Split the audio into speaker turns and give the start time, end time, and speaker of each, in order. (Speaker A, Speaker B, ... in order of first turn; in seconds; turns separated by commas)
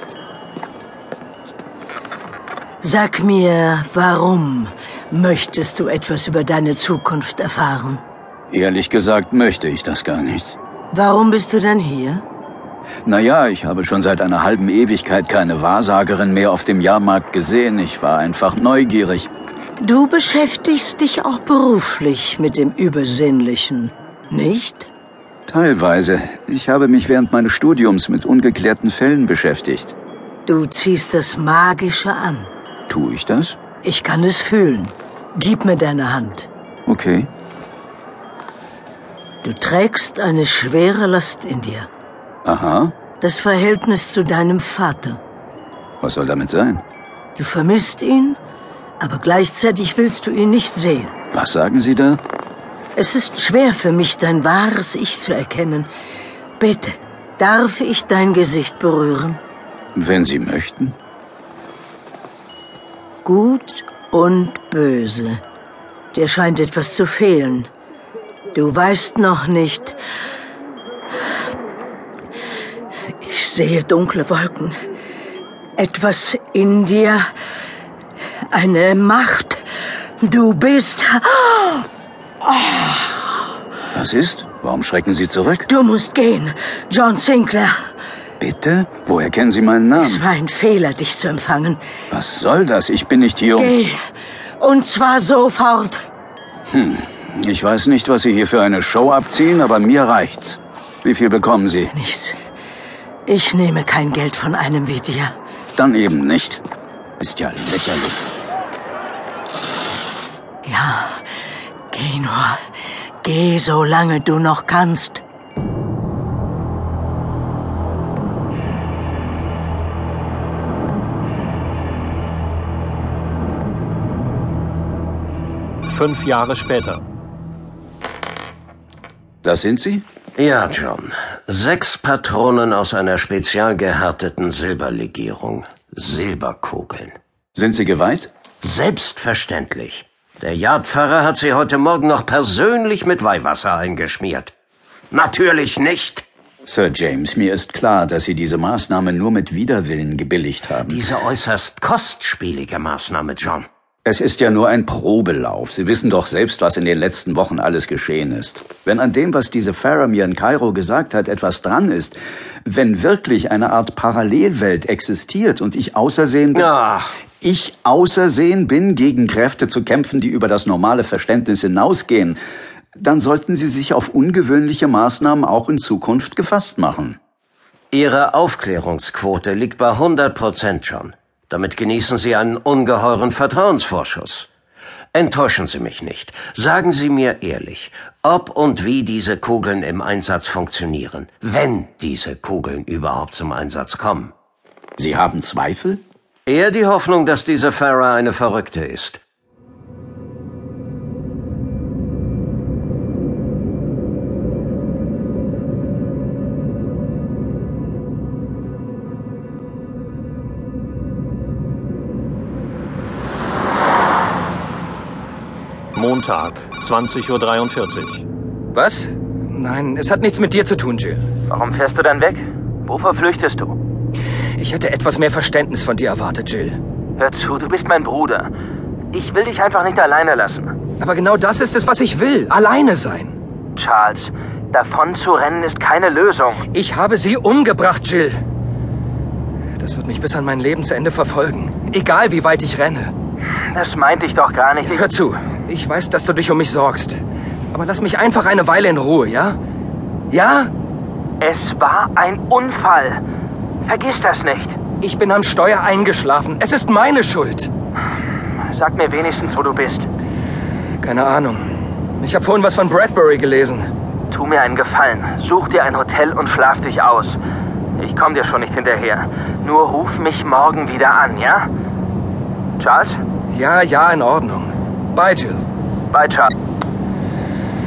Speaker A: 2.8-8.0, Speaker B: 8.5-10.6, Speaker A: 10.9-12.2, Speaker B: 13.0-19.3, Speaker A: 19.8-24.9, Speaker B: 25.5-29.9, Speaker A: 30.4-32.5, Speaker B: 32.9-33.6, Speaker A: 33.8-36.5, Speaker B: 36.9-37.3, Speaker A: 39.4-41.9, Speaker B: 42.4-42.9, Speaker A: 43.2-45.2, Speaker B: 46.0-46.8, Speaker A: 47.4-48.4, Speaker A: 49.0-51.1, Speaker B: 51.3-52.2, Speaker A: 53.0-55.9, Speaker A: 56.6-59.4, Speaker B: 59.9-60.9, Speaker A: 63.2-65.4, Speaker A: 66.1-67.7, Speaker A: 68.5-70.0, Speaker A: 73.2-74.7, Speaker A: 75.8-77.2, Speaker A: 78.5-79.6, Speaker A: 80.2-81.9, Speaker A: 82.4-83.3, Speaker B: 83.9-85.7, Speaker A: 85.7-87.8, Speaker B: 88.4-90.2, Speaker A: 90.0-91.8, Speaker B: 92.1-93.7, Speaker A: 93.5-94.0, Speaker A: 94.6-96.0, Speaker B: 96.7-101.9, Speaker A: 101.9-102.4, Speaker A: 103.3-105.3, Speaker B: 105.8-106.6, Speaker B: 107.2-108.2, Speaker A: 110.6-111.2, Speaker A: 111.9-112.6, Speaker A: 113.2-115.2, Speaker C: 125.8-127.1, Speaker B: 129.4-130.0, Speaker D: 130.4-137.2, Speaker B: 137.5-138.3, Speaker D: 138.6-144.5, Speaker D: 145.1-146.2, Speaker B: 146.7-151.0, Speaker D: 150.8-153.7, Speaker B: 154.0-166.7, Speaker D: 166.5-167.1, Speaker B: 167.4-172.4, Speaker B: 172.9-177.2, Speaker D: 177.9-184.5, Speaker D: 185.1-194.3, Speaker B: 195.0-196.0, Speaker D: 196.5-199.2, Speaker C: 215.9-218.2, Speaker E: 218.7-221.2, Speaker F: 221.5-223.7, Speaker E: 224.6-226.8, Speaker F: 227.2-228.5, Speaker F: 229.1-230.7, Speaker E: 231.0-233.3, Speaker F: 233.8-236.6, Speaker E: 236.7-238.4, Speaker E: 239.8-243.1, Speaker F: 243.7-245.1, Speaker E: 244.9-247.2, Speaker E: 247.7-249.6, Speaker E: 250.3-250.7, Speaker F: 251.4-253.2, Speaker F: 253.8-254.8, Speaker E: 255.0-257.7, Speaker F: 258.7-260.1, Speaker E: 261.0-261.6, Speaker E: 262.2-263.8, Speaker F: 264.3-267.4, Speaker F: 268.0-271.7, Speaker F: 272.8-273.2, Speaker E: 273.5-275.6, Speaker F: 276.1-276.5